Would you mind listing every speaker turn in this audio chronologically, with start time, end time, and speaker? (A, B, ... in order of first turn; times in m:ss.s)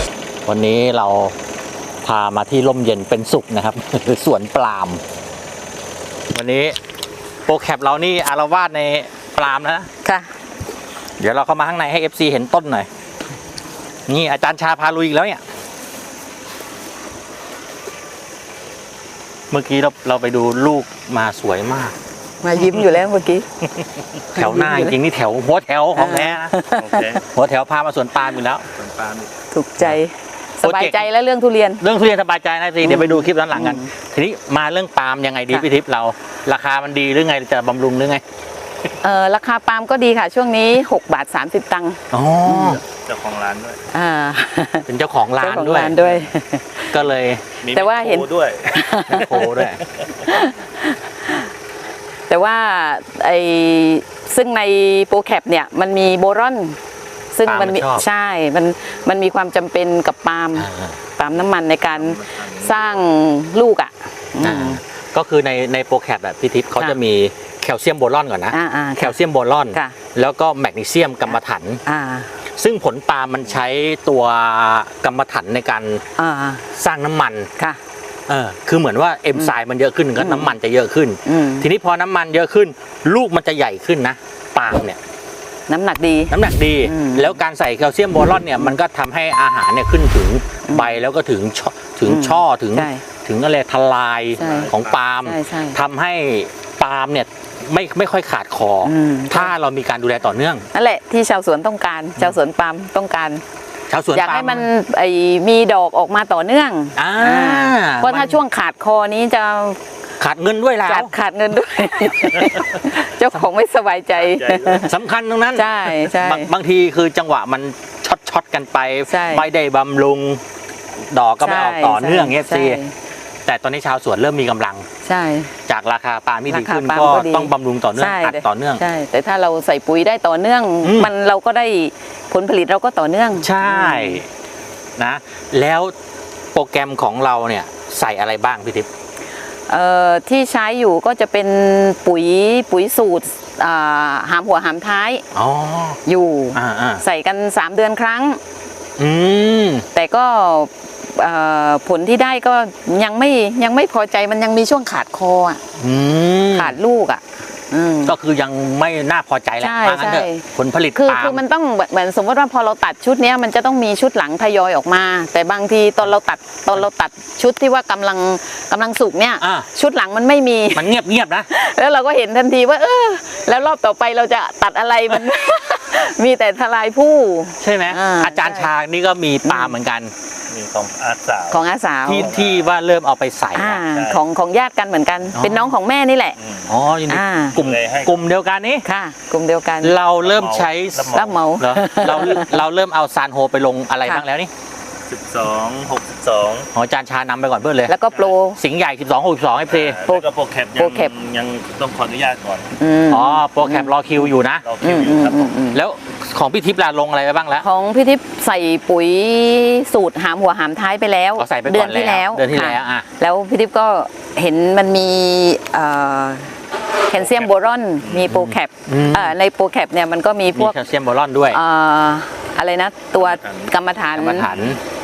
0:00.4-0:01.3 A
0:02.0-0:05.0 A
0:06.3-0:06.8 A
0:07.4-0:09.9 A
0:11.2-0:12.9 A
0:14.1-0:15.4 A
0:19.5-0:21.9 A
0:22.4-0:23.4 B
0:24.2-0:26.5 A
0:24.4-0:24.9 B
0:25.9-0:26.9 B
0:26.7-0:27.2 C
0:27.2-0:28.7 A
0:28.7-0:29.3 C
0:29.5-0:31.8 B
0:30.6-0:31.0 A
0:31.8-0:38.2 A
0:32.8-0:33.9 B
0:39.0-0:42.8 B
0:42.1-0:42.8 A
0:42.9-0:43.8 C
0:43.9-0:46.9 B
0:44.9-0:46.2 A
0:46.8-0:47.6 A
0:47.6-0:48.8 C
0:47.7-0:48.2 B
0:48.8-0:49.6 B
0:49.0-0:49.8 A
0:50.2-0:51.5 B
0:52.3-0:56.8 B
0:57.3-1:04.8 B
0:57.4-0:58.0 A
1:00.6-1:01.0 A
1:02.0-1:02.9 C
1:04.4-1:11.8 A
1:08.5-1:09.2 B
1:11.8-1:12.3 B
1:12.5-1:16.0 A
1:16.2-1:16.6 B
1:16.7-1:17.5 A
1:18.3-1:25.0 A
1:20.2-1:20.5 B
1:21.2-1:21.6 B
1:25.7-1:27.4 B
1:26.3-1:40.6 A
1:32.0-1:33.0 B
1:34.4-1:35.8 B
1:34.4-1:34.9 C
1:38.8-1:39.5 B
1:40.7-1:43.4 B
1:43.9-1:44.6 A
1:44.1-1:49.8 B
1:47.0-1:48.4 A
1:50.2-1:51.1 A
1:50.8-1:54.9 B
1:54.4-1:54.8 C
1:54.7-2:00.4 A
1:55.5-1:56.5 B
1:59.1-1:59.4 B
2:01.0-2:02.8 A
2:01.4-2:02.9 B
2:03.4-2:04.9 A
2:05.0-2:05.5 B
2:05.7-2:08.8 A
2:06.5-2:14.2 B
2:10.8-2:11.1 A
2:13.4-2:14.3 A
2:15.0-2:15.9 A
2:16.5-2:18.9 A
2:19.7-2:25.2 B
2:25.3-2:26.0 A
2:26.0-2:28.4 B
2:26.5-2:27.0 A
2:29.0-2:29.8 A
2:29.9-2:35.6 B
2:35.8-2:36.7 A
2:36.5-2:38.1 B
2:38.0-2:41.4 A
2:39.6-2:40.4 B
2:41.0-2:50.8 B
2:49.4-2:49.7 A
2:50.7-2:51.5 A
2:51.5-2:58.7 B
2:57.6-3:00.1 A
2:59.4-2:59.7 B
3:00.5-3:01.7 C
3:01.5-3:02.2 B
3:02.0-3:03.8 A
3:02.2-3:02.7 C
3:03.5-3:06.4 B
3:03.8-3:04.2 C
3:05.3-3:05.7 A
3:06.6-3:08.8 A
3:07.1-3:07.6 B
3:07.5-3:08.2 C
3:08.8-3:10.0 B
3:09.8-3:14.5 A
3:10.1-3:11.4 C
3:11.1-3:12.6 B
3:15.1-3:16.7 C
3:16.7-3:18.0 A
3:17.9-3:18.6 B
3:18.6-3:20.0 A
3:19.7-3:22.7 C
3:20.8-3:21.1 B
3:22.8-3:24.3 B
3:23.1-3:24.6 A
3:24.6-3:25.5 C
3:24.8-3:25.8 B
3:25.6-3:27.6 A
3:27.6-3:36.5 B
3:31.4-3:33.1 A
3:37.1-3:40.8 B
3:38.3-3:39.3 A
3:40.5-3:41.6 A
3:41.5-3:44.4 B
3:43.2-3:43.7 C
3:44.1-3:44.8 A